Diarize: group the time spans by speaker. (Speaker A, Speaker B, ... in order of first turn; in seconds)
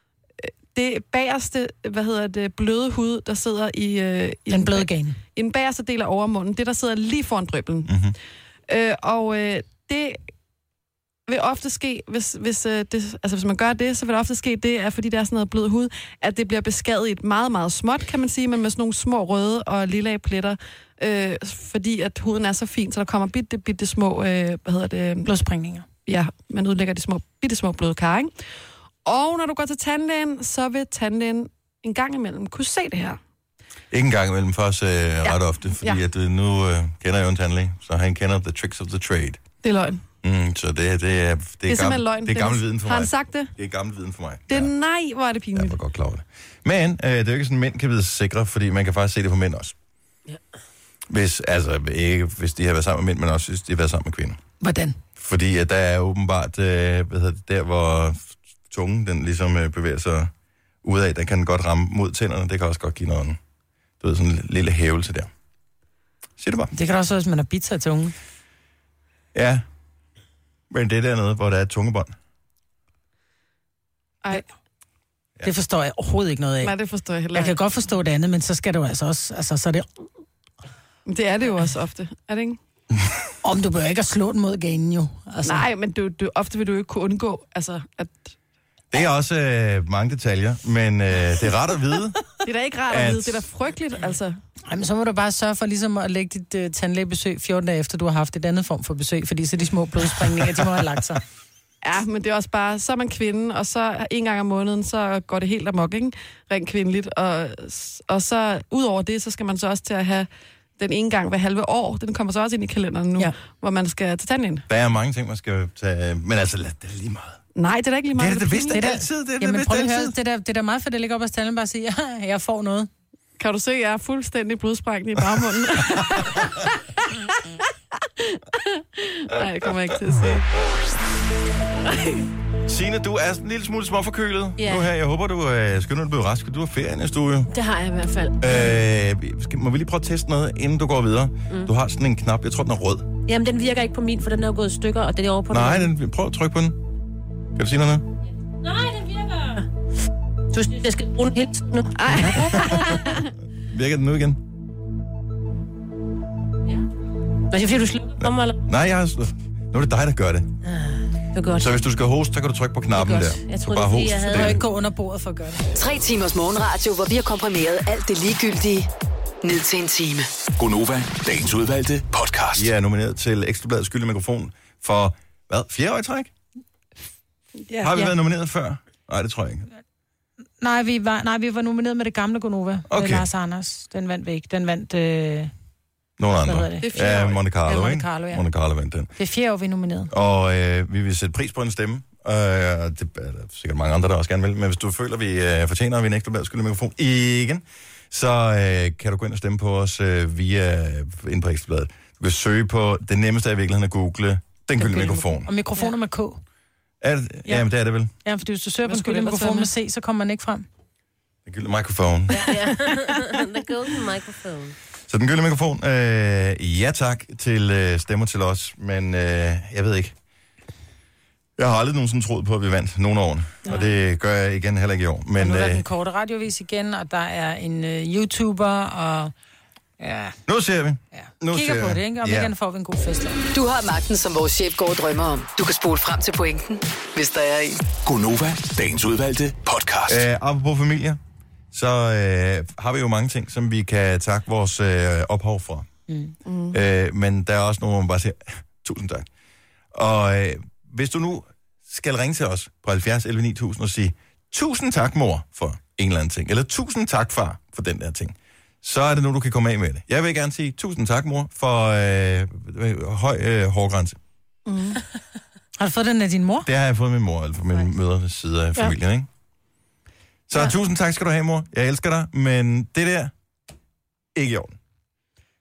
Speaker A: 0.4-8.0, 8.7-10.2, 11.3-25.3, 26.1-28.3, 29.1-33.2, 35.2-36.0, 39.6-40.0, 41.7-43.5, 44.5-45.8, 76.6-77.6, 81.1-82.6, 85.4-88.3, 92.4-94.4, 101.8-114.7, 117.5-118.9, 123.4-127.4, 128.2-130.5, 152.0-153.2, 186.8-187.4, 208.9-209.7, 246.5-246.8, 264.7-265.0
Speaker B: 4.5-5.2, 25.2-25.9, 54.6-55.0, 66.7-68.2, 75.4-76.7, 77.3-79.9, 83.4-85.7, 94.7-101.2, 118.7-122.9, 164.3-165.7, 177.7-178.2, 180.6-185.5, 186.4-188.4, 189.2-190.1, 204.8-206.4, 208.2-210.7, 225.4-229.3, 230.0-230.4, 231.1-233.4, 246.1-246.3, 265.8-266.7
Speaker C: 7.9-8.2, 33.9-39.4, 40.2-44.7, 45.5-49.7, 51.1-54.4, 55.2-60.3, 60.8-63.4, 64.0-65.3, 66.4-66.7, 69.3-69.6, 70.7-72.2, 88.9-92.2, 92.9-93.5, 100.3-100.6, 114.7-117.4, 118.2-120.2, 132.7-137.5, 138.4-143.1, 145.5-146.8, 147.6-148.1, 152.4-153.0, 153.7-154.4, 158.2-160.5, 161.6-164.6, 172.6-176.3, 177.8-179.7, 182.9-183.3, 186.2-189.1, 190.1-205.5, 207.0-208.1, 211.5-212.6, 215.1-220.1, 221.6-225.8, 230.5-232.5, 240.1-241.2, 241.7-245.9, 246.7-249.3, 249.9-264.2, 266.7-269.3, 270.5-273.3, 274.4-274.8
Speaker D: 134.6-134.9, 137.5-138.8, 143.3-145.9, 148.6-149.7, 150.5-152.9, 157.5-158.6, 160.7-161.8, 162.9-164.6, 212.4-214.8
Speaker E: 165.8-168.9, 169.4-170.3, 233.5-237.8
Speaker F: 170.6-172.7, 238.1-240.2